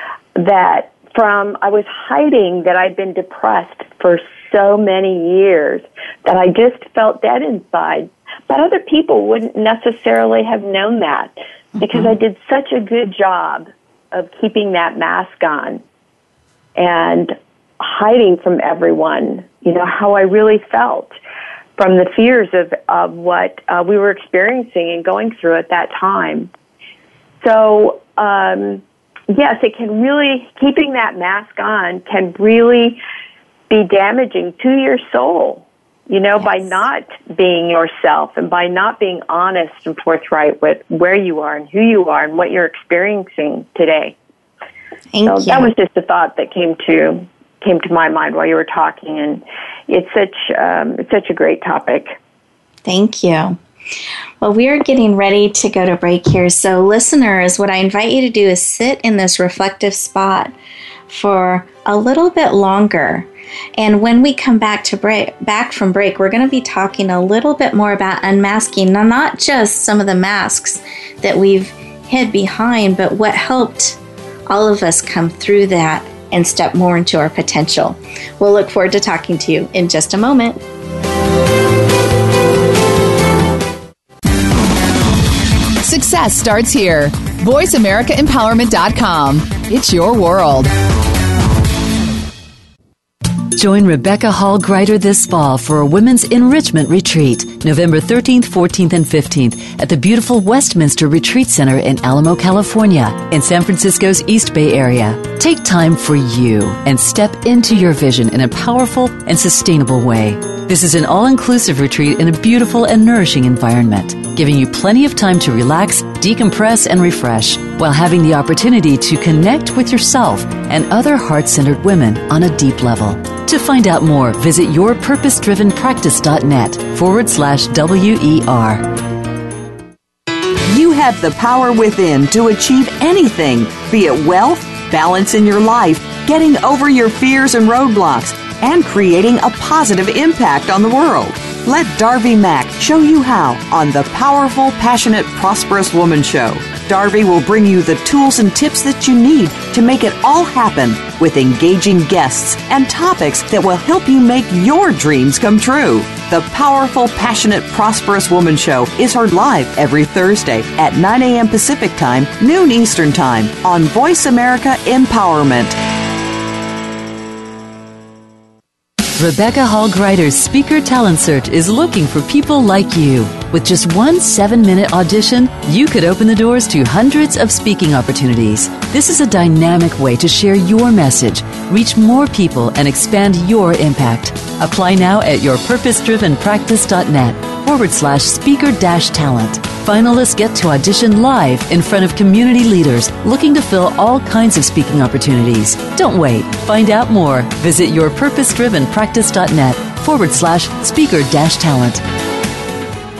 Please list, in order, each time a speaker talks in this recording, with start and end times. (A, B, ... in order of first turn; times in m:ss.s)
0:00.4-0:15.8 A
0:11.8-0:12.1 B
0:16.8-0:21.1 A
0:21.8-0:26.5 A
0:27.4-0:33.0 A
0:33.7-0:44.2 A
0:45.1-0:45.7 B
0:45.2-0:52.2 A
0:52.8-0:53.6 B
0:54.4-1:00.5 B
1:01.1-1:20.6 B
1:25.8-1:30.7 C
1:33.6-2:09.0 D
2:10.7-2:45.8 E
2:49.2-3:22.0 D